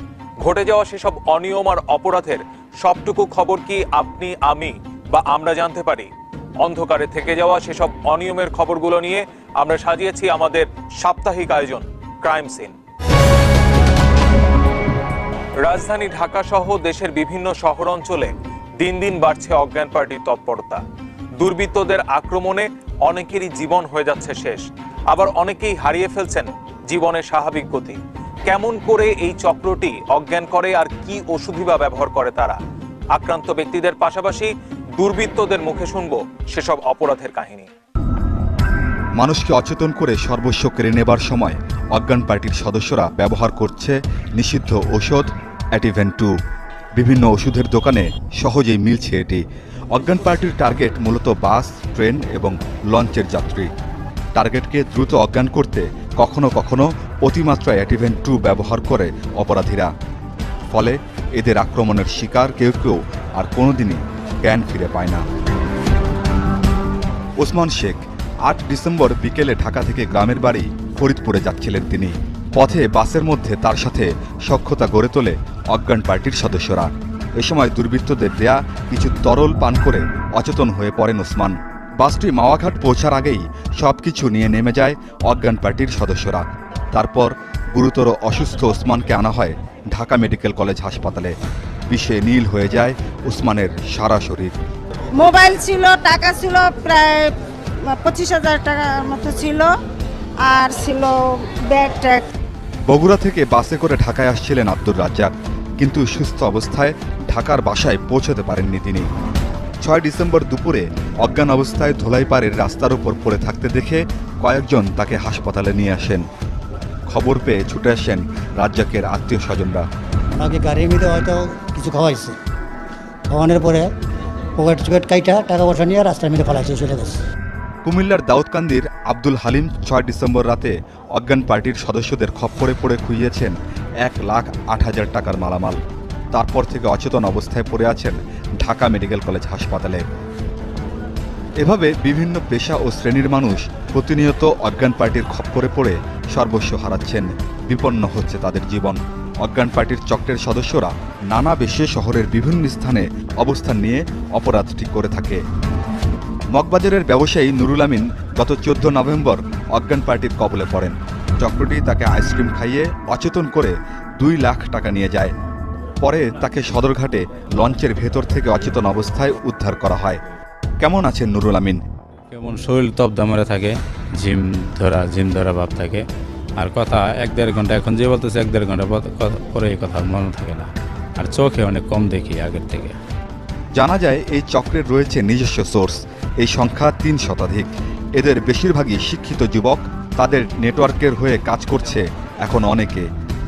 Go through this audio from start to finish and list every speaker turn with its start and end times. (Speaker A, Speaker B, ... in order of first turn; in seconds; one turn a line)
Speaker A: 0.4-6.1
Speaker A: 6.6-12.7
Speaker A: 15.6-20.8
Speaker A: 21.4-32.6
Speaker A: 33.1-37.7
Speaker B: 39.2-46.3
Speaker B: 47.0-53.7
Speaker B: 54.3-59.9
Speaker B: 60.7-65.2
Speaker B: 67.4-91.3
Speaker B: 91.9-94.5
Speaker C: 95.2-97.3
Speaker C: 97.9-99.7
Speaker C: 100.4-102.2
Speaker B: 102.9-109.1
Speaker B: 109.8-116.2
Speaker B: 117.1-119.9
Speaker D: 120.4-122.3
Speaker D: 123.3-123.9
Speaker D: 124.6-127.1
Speaker B: 127.8-135.8
Speaker B: 136.3-140.0
Speaker B: 141.6-155.4
Speaker B: 156.5-165.3
Speaker B: 166.0-170.2
Speaker B: 170.8-171.8
Speaker E: 172.3-176.0
Speaker E: 176.6-182.9
Speaker B: 183.8-193.1